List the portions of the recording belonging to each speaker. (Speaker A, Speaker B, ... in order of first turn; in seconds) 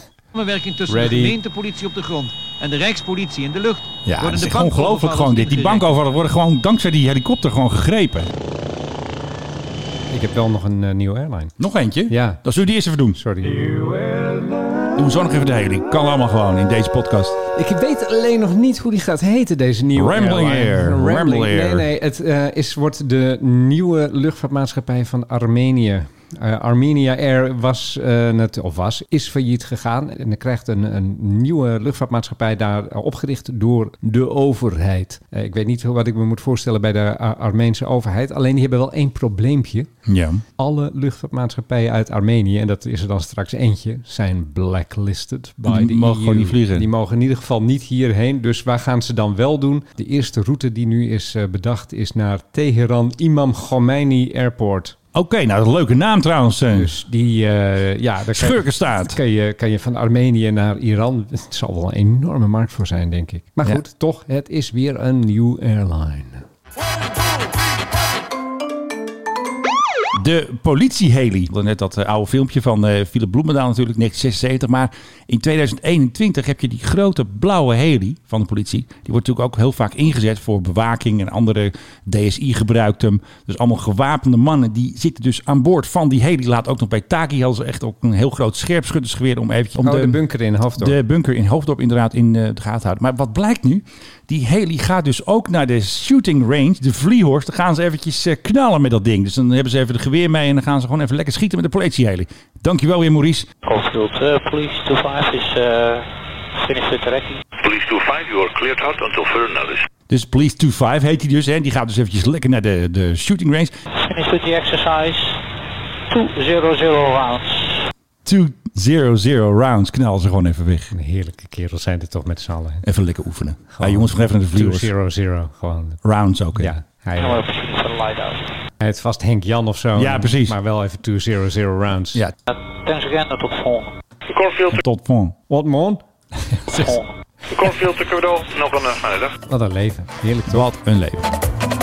Speaker A: 0.3-5.9
Speaker B: 0.9-1.4, 10.1-11.5, 12.1-12.4, 13.1-13.9, 17.6-39.9, 40.6-55.0, 56.7-66.4, 89.8-91.0, 120.9-122.8, 123.7-126.0, 126.6-127.5, 128.8-132.2, 135.5-136.8, 139.5-140.7
Speaker C: 4.1-8.3, 11.6-13.2, 15.0-17.4, 19.9-21.9, 40.1-40.4, 45.6-46.9, 55.1-56.9, 58.3-59.2, 70.1-90.2, 90.8-103.5, 110.1-113.7, 118.2-120.9, 122.8-124.9, 126.0-126.7, 130.0-130.6, 134.7-135.4, 140.5-141.2
Speaker D: 103.6-107.4, 114.0-115.4, 116.1-117.9, 127.2-128.4, 132.5-133.9, 136.8-137.1
Speaker E: 107.6-109.9, 134.3-134.8, 137.5-139.3